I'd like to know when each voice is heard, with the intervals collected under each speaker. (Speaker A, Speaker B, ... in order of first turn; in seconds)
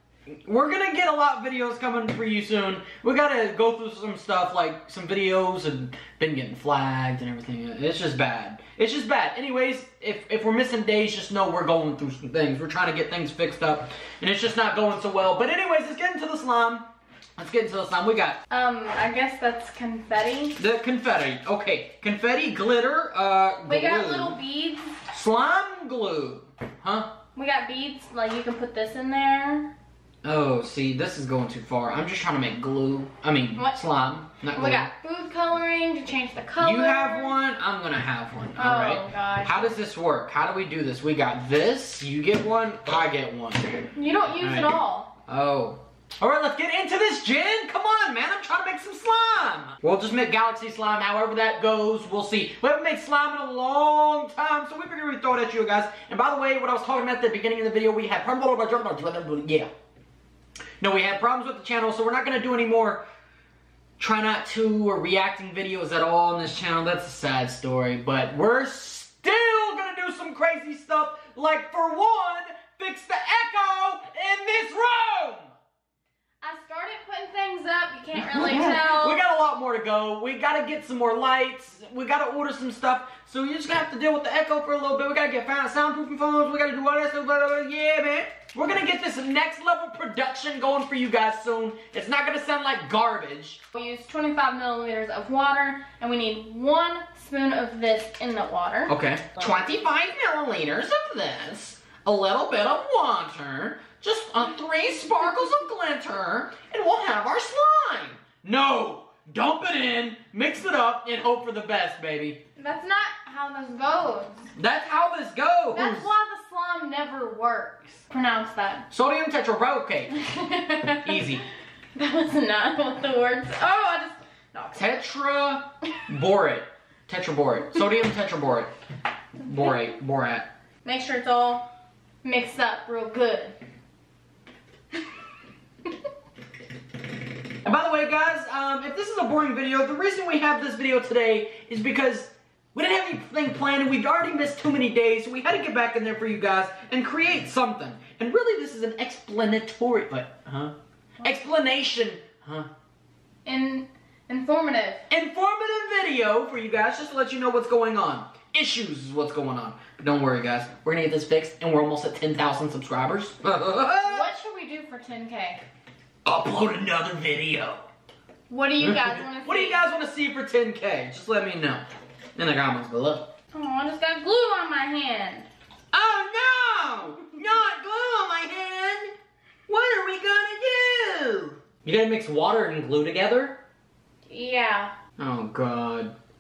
Speaker A: 0.3-16.9, 17.4-18.4, 20.6-24.4, 25.1-27.1, 30.2-34.9, 36.6-43.9, 44.4-44.7, 45.3-59.7, 60.8-63.0, 64.0-75.5, 78.1-93.6, 98.9-112.4, 114.5-116.1, 118.9-120.1, 121.0-121.4, 124.7-128.7, 129.4-130.5, 137.6-152.7, 155.1-164.3, 166.2-167.8, 168.8-171.8, 172.3-173.3, 175.9-179.1, 179.7-183.6, 185.2-186.1
Speaker B: 18.5-20.6, 23.6-25.0, 27.3-29.7, 34.5-37.4, 38.5-39.7, 43.9-45.1, 76.4-79.2, 93.7-98.9, 112.5-114.5, 115.7-118.9, 120.1-121.2, 121.9-124.9, 130.8-131.6, 132.2-133.5, 153.4-155.0, 164.0-165.6, 168.5-169.8, 173.5-175.5, 184.3-184.9